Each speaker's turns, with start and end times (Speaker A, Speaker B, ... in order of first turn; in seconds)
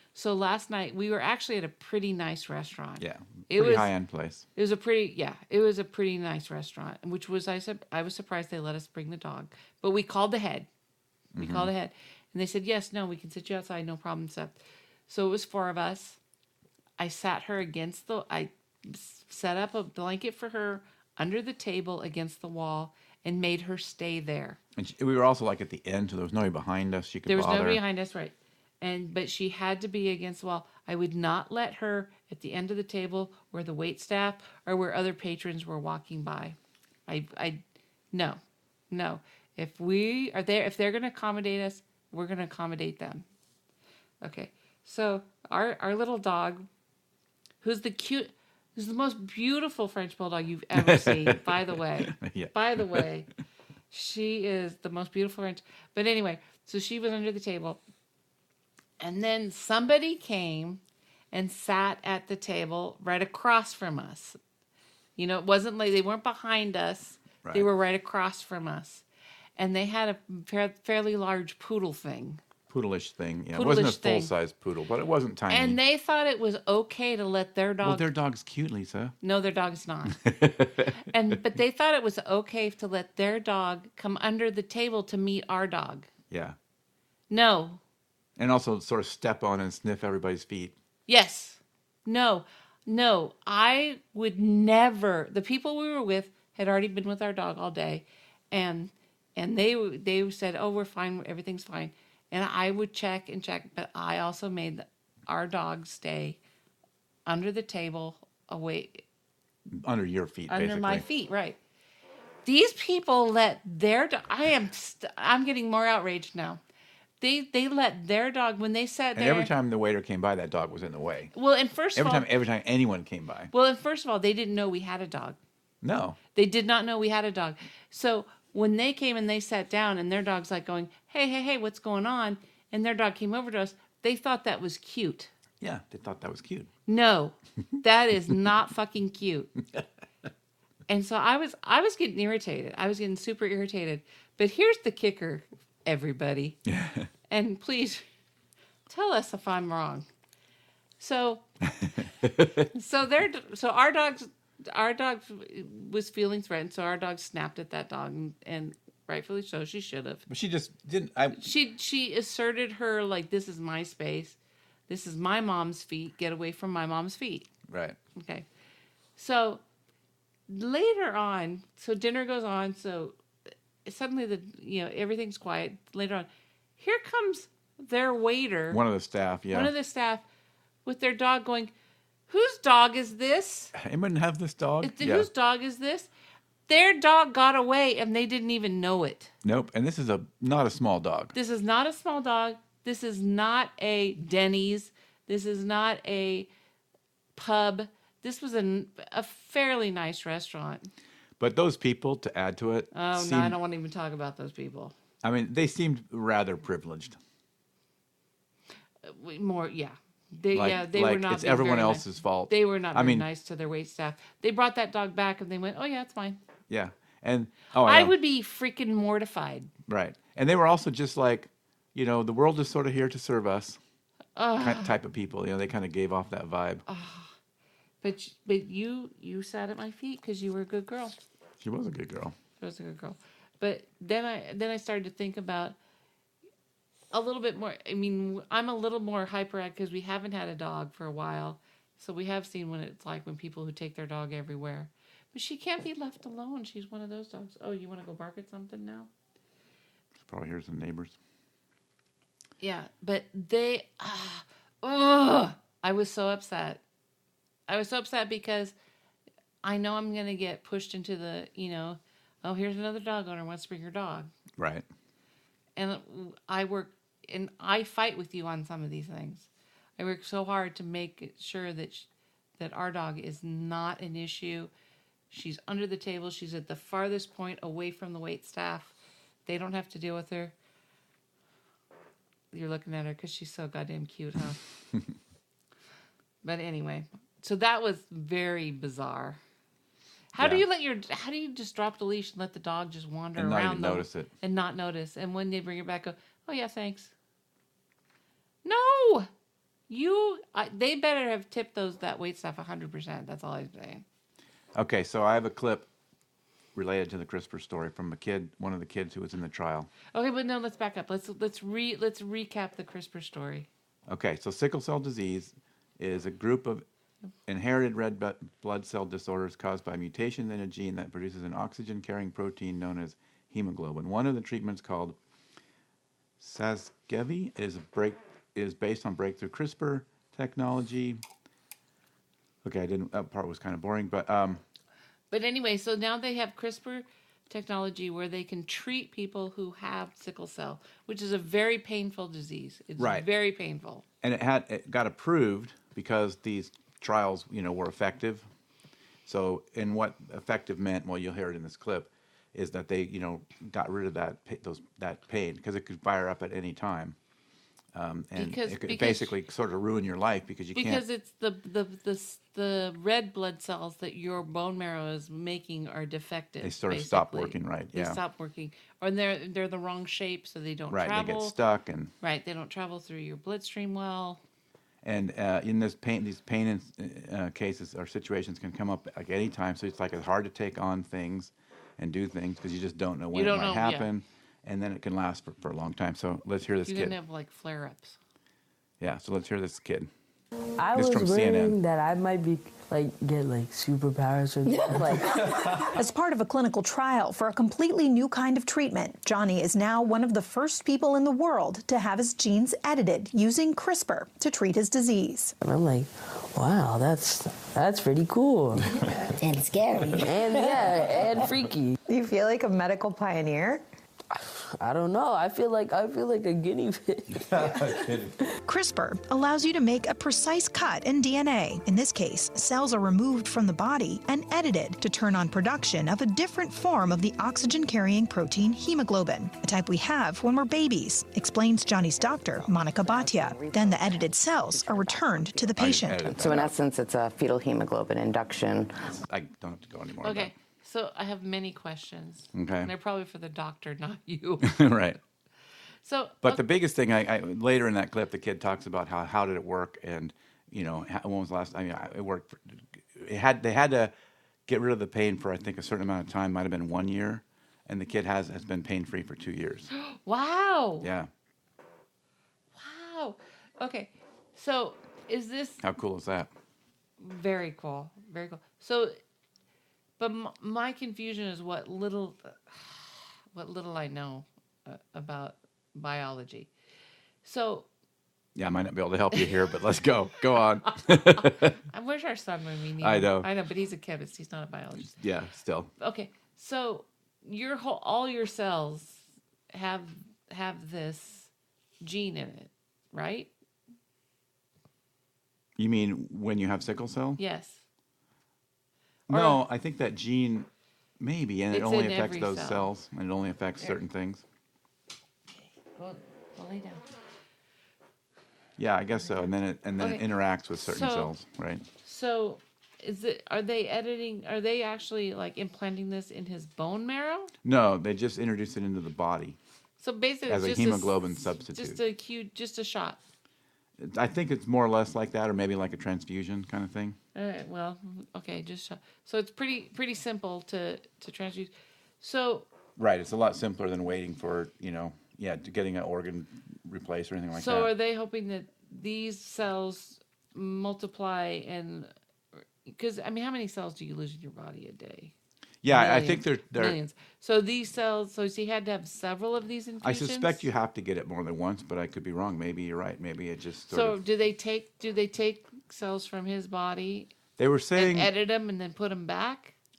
Speaker A: 0.1-3.9, 4.5-10.7, 11.4-14.6, 15.1-16.2, 17.0-24.6, 27.3-38.4, 38.9-43.2, 44.2-46.7, 47.6-53.3, 53.9-57.8, 59.0-60.8, 61.3-64.4, 65.2-69.0, 69.6-72.4, 73.5-74.3, 75.5-78.1, 79.2-80.2, 80.9-86.1, 87.3-87.8, 91.1-106.4, 107.2-109.0, 110.5-111.6, 112.4-116.6, 117.2-119.5, 121.3-122.3, 123.5-125.4, 126.3-135.3, 136.9-139.5, 140.9-146.6, 147.3-148.0, 148.9-150.1, 151.0-151.4, 152.7-160.2, 161.3-164.4, 164.9-167.5, 168.2-168.4, 169.2-169.6, 170.5-173.2, 173.8-178.8, 179.5-180.2, 180.8-181.7, 182.3-183.7, 184.8-186.1, 186.7-189.3, 191.3-196.5, 197.3-200.9, 202.9-204.9, 209.0-216.4, 217.8-219.7, 224.3-224.9, 226.9-227.3, 228.0-231.1, 232.6-235.8, 237.1-249.1, 252.6-256.8, 257.7-258.7, 259.6-264.3, 265.8-274.7, 275.3-278.9, 279.4-280.5, 282.5-284.6, 286.4-289.4, 290.3-297.1, 298.6-299.3, 299.9-304.0, 310.1-313.7, 335.3-344.0, 358.4-359.3, 360.7-371.5, 372.2-374.4, 383.3-384.1, 386.9-388.2, 440.2-444.8, 446.0-446.6, 459.9-461.1, 462.8-465.8, 467.2-469.2, 470.2-476.7, 477.4-477.9, 480.9-485.1, 486.0-493.5, 497.4-497.8, 499.3-499.6, 501.7-502.9, 505.9-507.0, 510.0-510.2, 510.8-511.3, 512.0-517.5, 520.0-523.2, 527.3-532.7, 537.5-542.1, 542.8-545.3, 545.9-550.7, 553.9-557.3, 557.9-559.7
Speaker B: 3.0-4.5, 11.3-11.7, 24.8-27.8, 50.7-53.1, 67.4-67.7, 72.7-75.8, 77.8-79.1, 80.2-81.0, 86.3-86.5, 88.4-90.7, 109.7-111.0, 119.1-121.3, 121.9-123.5, 125.8-126.2, 135.6-136.7, 146.7-147.1, 151.8-152.6, 160.3-161.4, 167.7-168.0, 178.7-179.7, 183.7-185.3, 189.4-191.3, 201.4-203.6, 205.2-207.2, 210.5-213.2, 216.7-218.1, 219.9-223.8, 224.6-226.8, 231.6-232.3, 250.2-251.2, 264.6-264.8, 290.4-290.6, 293.4-294.3, 304.7-305.9, 306.7-309.9, 314.1-316.8, 317.5-325.2, 326.4-331.2, 332.6-334.6, 343.0-343.3, 344.2-348.4, 349.2-357.1, 357.9-361.0, 366.6-368.2, 370.9-372.1, 375.0-387.1, 389.0-390.1, 390.9-391.8, 417.3-418.4, 435.8-436.7, 439.0-440.5, 442.5-442.9, 444.6-445.2, 446.4-454.1, 454.7-459.9, 461.0-461.3, 465.8-466.5, 478.5-481.8, 483.0-483.5, 485.0-485.9, 495.8-497.4, 499.3-500.7, 501.2-504.4, 508.8-511.9, 517.6-519.6, 520.5-522.0, 524.0-527.2, 533.0-537.9, 545.8-547.0, 550.0-554.2, 557.6-558.3
Speaker C: 390.8-395.8, 405.6-409.2, 410.2-412.0, 414.3-418.0
Speaker D: 395.9-405.5, 412.1-413.8, 418.6-436.4
Speaker E: 432.1-439.0